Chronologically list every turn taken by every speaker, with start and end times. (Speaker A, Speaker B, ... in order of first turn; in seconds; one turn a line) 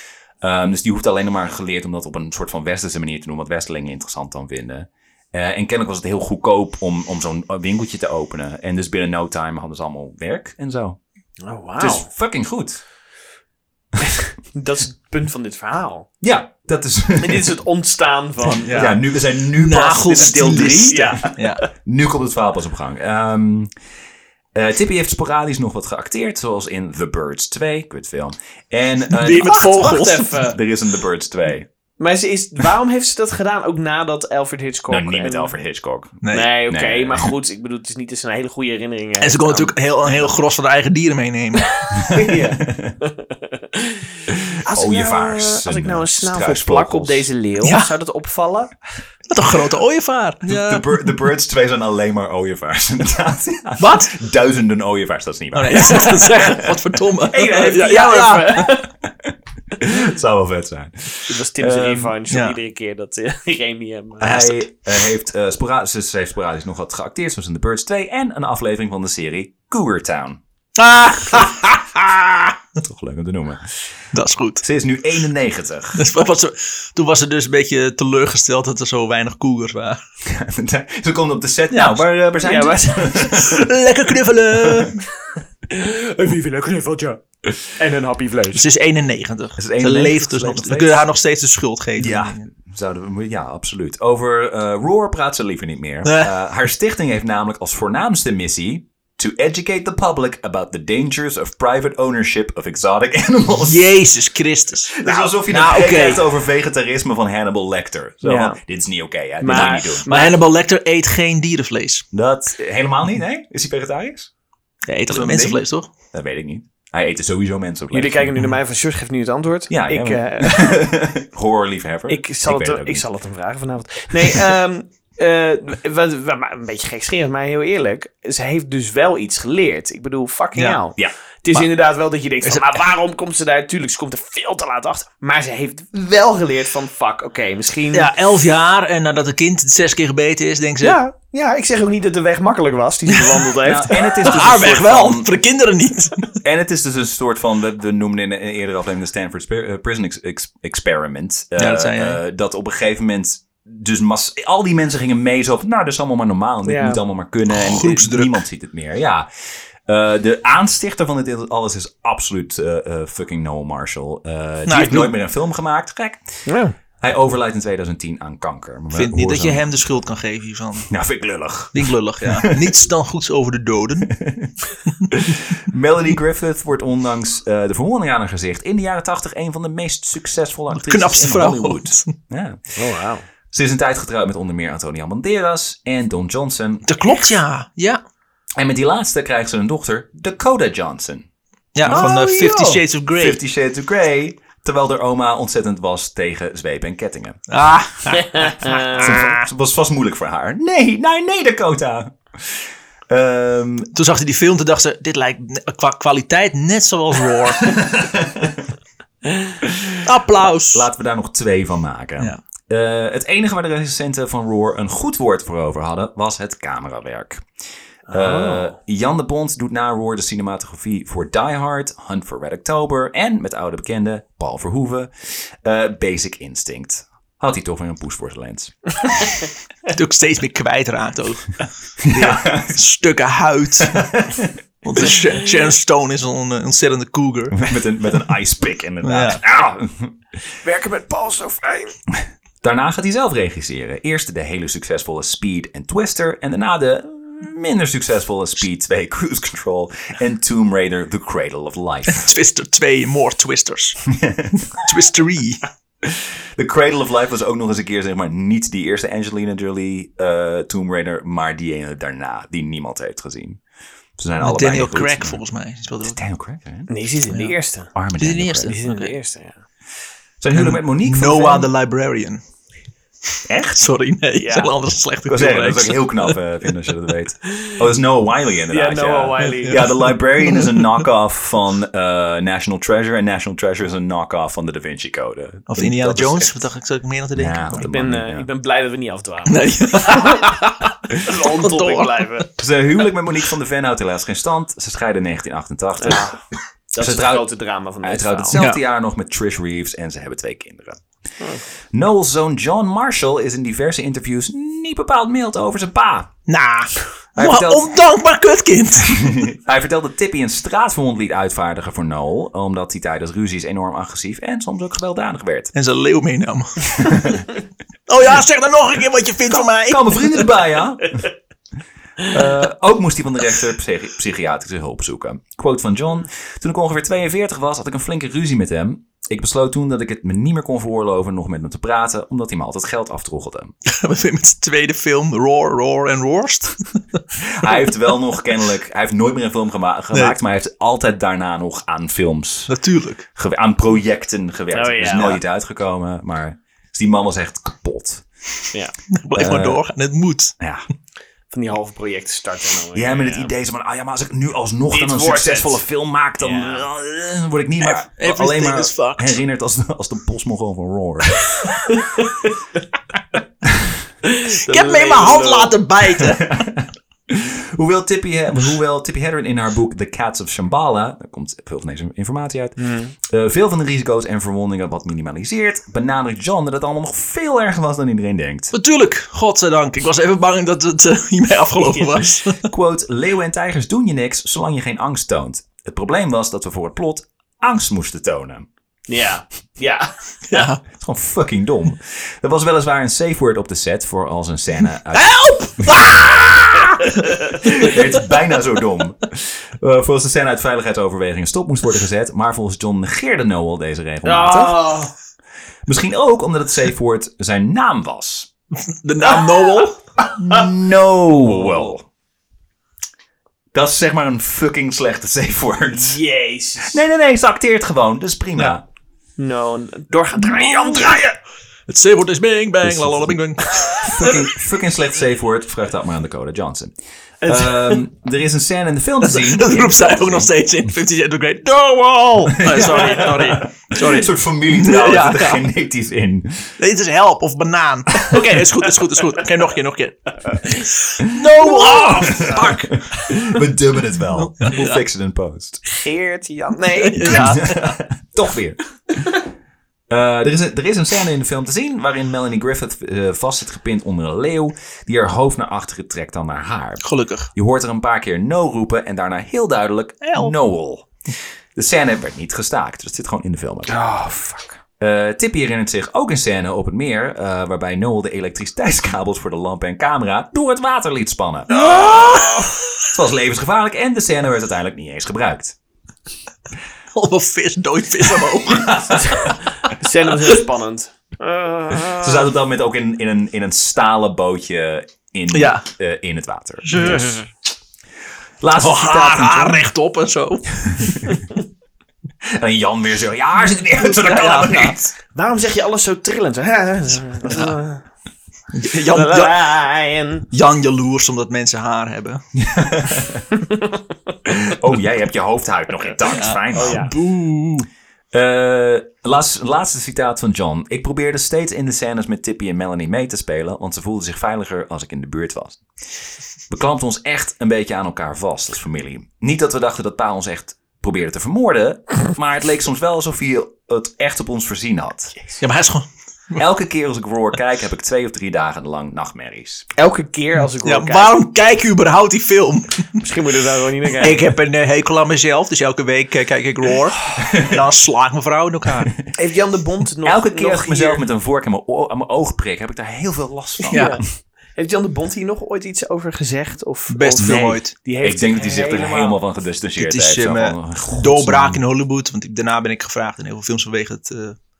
Speaker A: 0.4-11.0
Speaker B: 11.4-12.1
Speaker A: 11.8-12.8
Speaker B: 14.5-16.1
Speaker A: 16.2-17.5
Speaker B: 17.2-19.0
Speaker C: 18.4-21.6
Speaker A: 18.7-23.7
Speaker B: 20.9-21.6
Speaker A: 24.5-31.7
Speaker C: 29.1-30.5
Speaker B: 29.5-30.6
Speaker B: 32.0-35.5
Speaker A: 34.9-37.3
Speaker C: 36.2-36.5
Speaker B: 36.3-40.2
Speaker C: 39.2-41.8
Speaker B: 41.7-44.1
Speaker A: 41.9-43.0
Speaker B: 44.6-48.7
Speaker A: 44.7-47.3
Speaker C: 47.6-47.9
Speaker C: 49.3-51.1
Speaker A: 50.4-56.7
Speaker C: 53.8-54.1
Speaker C: 55.5-58.7
Speaker B: 57.3-58.9
Speaker A: 58.6-62.1
Speaker B: 61.3-64.6
Speaker C: 62.3-62.6
Speaker A: 64.2-70.4
Speaker C: 70.8-72.5
Speaker A: 72.8-73.7
Speaker C: 74.1-74.6
Speaker A: 74.6-76.0
Speaker C: 75.9-80.0
Speaker A: 80.2-83.7
Speaker C: 81.7-82.0
Speaker B: 82.4-83.3
Speaker C: 83.2-85.0
Speaker A: 84.6-84.9
Speaker B: 85.7-88.6
Speaker C: 88.5-92.4
Speaker A: 89.6-91.0
Speaker A: 92.0-103.9
Speaker C: 96.0-96.3
Speaker C: 103.6-106.2
Speaker A: 104.9-110.1
Speaker B: 105.0-106.2
Speaker B: 108.2-108.6
Speaker B: 109.4-110.4
Speaker C: 109.5-112.0
Speaker A: 112.1-114.3
Speaker C: 114.9-115.9
Speaker A: 115.1-115.6
Speaker A: 116.1-118.3
Speaker B: 117.9-120.8
Speaker A: 119.7-123.0
Speaker B: 122.1-138.1
Speaker C: 130.5-130.8
Speaker C: 132.4-132.8
Speaker C: 137.9-141.0
Speaker B: 140.8-144.8
Speaker C: 143.1-143.4
Speaker A: 143.6-145.3
Speaker C: 144.0-146.3
Speaker A: 146.4-159.3
Speaker C: 151.6-152.2
Speaker B: 156.7-157.0
Speaker C: 157.5-158.4
Speaker A: 159.8-166.5
Speaker C: 164.7-165.1
Speaker B: 166.4-166.7
Speaker A: 167.0-169.9
Speaker C: 168.9-170.9
Speaker A: 170.9-172.6
Speaker C: 171.7-174.1
Speaker A: 174.1-174.5
Speaker A: 175.1-182.7
Speaker C: 180.8-182.1
Speaker B: 182.8-183.2
Speaker A: 183.5-186.9
Speaker C: 186.8-188.0
Speaker A: 188.6-191.2
Speaker C: 191.7-193.4
Speaker A: 191.8-197.4
Speaker C: 197.5-199.4
Speaker B: 198.4-198.8
Speaker A: 198.9-203.9
Speaker C: 203.9-207.8
Speaker A: 207.7-208.6
Speaker C: 210.0-210.8
Speaker A: 210.4-217.4
Speaker B: 218.1-218.7
Speaker A: 218.1-229.3
Speaker C: 229.9-234.2
Speaker A: 232.0-232.8
Speaker A: 233.8-234.5
Speaker C: 234.8-237.6
Speaker A: 237.5-240.2
Speaker C: 239.0-239.4
Speaker B: 240.6-242.0
Speaker A: 242.6-252.3
Speaker C: 252.1-254.1
Speaker A: 254.1-254.7
Speaker C: 254.7-255.6
Speaker A: 256.0-263.6
Speaker A: 264.2-265.4
Speaker C: 264.4-266.2
Speaker A: 266.0-266.9
Speaker B: 266.9-267.9
Speaker C: 267.3-267.6
Speaker A: 267.9-268.7
Speaker C: 268.2-269.1
Speaker B: 268.6-269.5
Speaker A: 270.4-271.7
Speaker C: 270.5-272.4
Speaker A: 273.5-273.8
Speaker C: 273.8-276.4
Speaker B: 274.3-274.7
Speaker A: 275.3-286.6
Speaker B: 278.7-280.0
Speaker C: 280.4-280.9
Speaker C: 285.7-287.8
Speaker A: 287.4-288.4
Speaker B: 287.7-290.5
Speaker C: 289.5-292.5
Speaker B: 291.1-292.5
Speaker A: 292.6-296.3
Speaker B: 296.0-296.4
Speaker B: 296.9-298.7
Speaker A: 297.0-297.5
Speaker A: 298.0-301.0
Speaker C: 298.5-298.8
Speaker A: 301.9-306.3
Speaker C: 306.5-309.5
Speaker A: 307.4-307.9
Speaker A: 309.0-315.7
Speaker C: 315.7-317.4
Speaker A: 317.0-317.5
Speaker C: 318.1-320.5
Speaker A: 319.5-321.3
Speaker A: 322.2-333.7
Speaker C: 333.9-337.2
Speaker A: 337.4-342.7
Speaker C: 342.7-343.2
Speaker A: 343.3-348.6
Speaker B: 344.7-345.4
Speaker C: 349.1-350.5
Speaker A: 349.3-349.8
Speaker A: 350.6-350.8
Speaker B: 351.5-353.5
Speaker A: 352.9-361.7
Speaker B: 354.9-355.8
Speaker B: 356.4-356.8
Speaker C: 357.8-359.4
Speaker B: 361.8-362.6
Speaker A: 363.6-363.9
Speaker B: 364.2-365.8
Speaker C: 364.4-366.6
Speaker A: 366.2-378.7
Speaker B: 372.8-373.1
Speaker C: 378.7-382.7
Speaker B: 381.8-382.2
Speaker A: 382.6-388.6
Speaker B: 389.1-390.7
Speaker C: 390.5-390.8
Speaker A: 390.9-404.9
Speaker C: 395.1-396.9
Speaker B: 404.2-405.1
Speaker A: 405.9-408.5
Speaker C: 408.8-410.0
Speaker B: 409.2-410.7
Speaker A: 410.3-412.1
Speaker B: 411.5-411.9
Speaker A: 413.7-416.2
Speaker B: 415.9-417.0
Speaker A: 416.8-418.8
Speaker B: 419.4-421.4
Speaker C: 420.8-421.2
Speaker C: 421.9-424.5
Speaker A: 422.9-423.3
Speaker A: 424.0-426.9
Speaker A: 427.4-430.5
Speaker B: 427.5-428.0
Speaker C: 429.2-435.6
Speaker A: 432.6-436.7
Speaker B: 432.6-433.0
Speaker C: 436.8-442.8
Speaker A: 441.2-445.8
Speaker B: 441.9-442.6
Speaker C: 444.3-445.0
Speaker B: 446.0-447.7
Speaker C: 446.9-447.8
Speaker A: 447.2-449.4
Speaker A: 450.1-461.1
Speaker C: 457.0-457.5
Speaker C: 460.2-460.5
Speaker A: 461.8-463.9
Speaker B: 463.9-464.8
Speaker A: 465.0-472.4
Speaker B: 471.8-472.7
Speaker C: 471.8-472.7
Speaker A: 473.1-475.8
Speaker C: 477.1-479.5
Speaker A: 478.7-479.5
Speaker B: 479.2-482.5
Speaker A: 482.1-487.3
Speaker C: 485.5-485.9
Speaker C: 486.8-487.4
Speaker A: 488.6-489.8
Speaker C: 488.8-491.3
Speaker A: 490.8-491.4
Speaker A: 492.5-495.1
Speaker C: 494.1-494.9
Speaker B: 494.4-498.0
Speaker C: 497.4-497.8
Speaker C: 498.7-499.7
Speaker B: 499.1-500.4
Speaker C: 500.5-502.4
Speaker A: 502.6-503.4
Speaker B: 503.5-504.0
Speaker A: 504.5-507.1
Speaker C: 506.2-507.9
Speaker B: 506.7-507.1
Speaker A: 508.3-515.8
Speaker A: 516.7-525.4
Speaker C: 525.6-526.6
Speaker A: 526.5-529.9
Speaker B: 530.0-531.4
Speaker C: 530.8-533.2
Speaker B: 533.2-534.4
Speaker C: 534.1-539.1
Speaker A: 537.4-537.8
Speaker B: 539.3-541.2
Speaker A: 540.2-544.1
Speaker B: 543.9-549.4
Speaker C: 543.9-544.2
Speaker C: 547.1-547.9
Speaker A: 547.4-551.8
Speaker C: 550.0-554.6